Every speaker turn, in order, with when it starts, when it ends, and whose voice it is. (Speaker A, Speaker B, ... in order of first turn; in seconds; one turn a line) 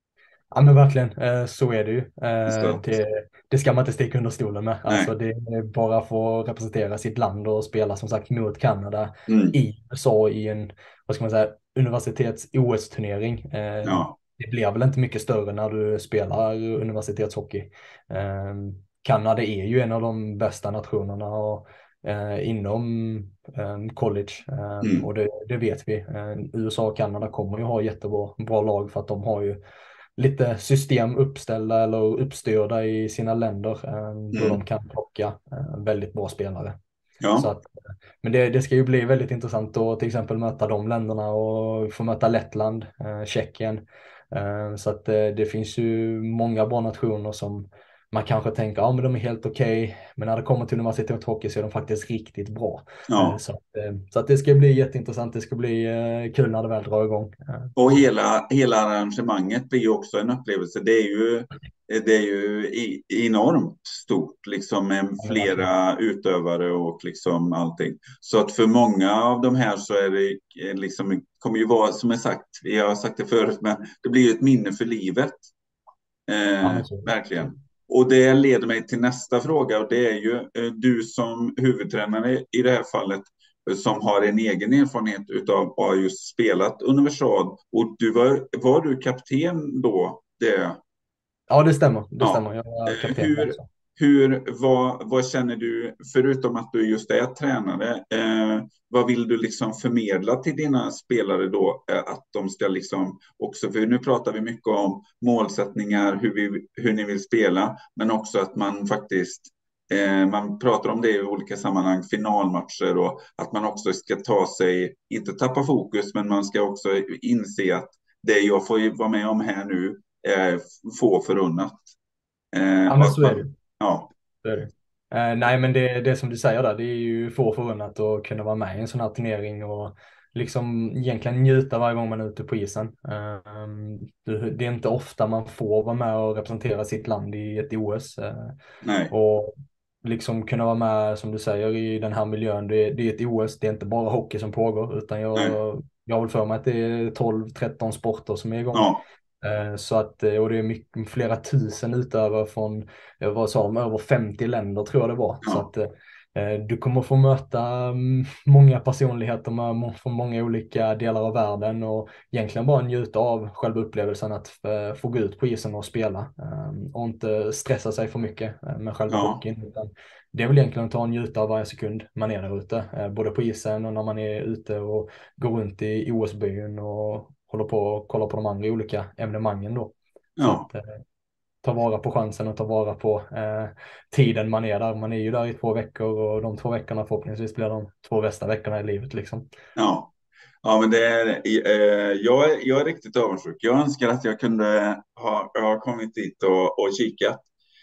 Speaker A: 0.5-29.6
Speaker B: 2.5-2.8
Speaker B: 9.3-9.6
Speaker B: 13.8-14.2
Speaker B: 24.8-25.1
Speaker A: 30.2-36.8
Speaker B: 34.3-34.6
Speaker B: 37.2-37.5
Speaker A: 37.4-37.7
Speaker A: 38.2-57.7
Speaker B: 53.1-53.4
Speaker B: 57.8-75.5
Speaker A: 65.2-65.7
Speaker B: 76.3-90.8
Speaker A: 76.6-77.5
Speaker A: 91.5-93.7
Speaker B: 92.2-121.9
Speaker B: 122.5-124.1
Speaker A: 122.9-123.5
Speaker A: 124.4-138.6
Speaker B: 138.8-139.1
Speaker A: 139.1-181.0
Speaker B: 148.7-149.0
Speaker B: 169.1-169.4
Speaker B: 180.4-180.7
Speaker A: 181.6-189.4
Speaker B: 189.8-197.4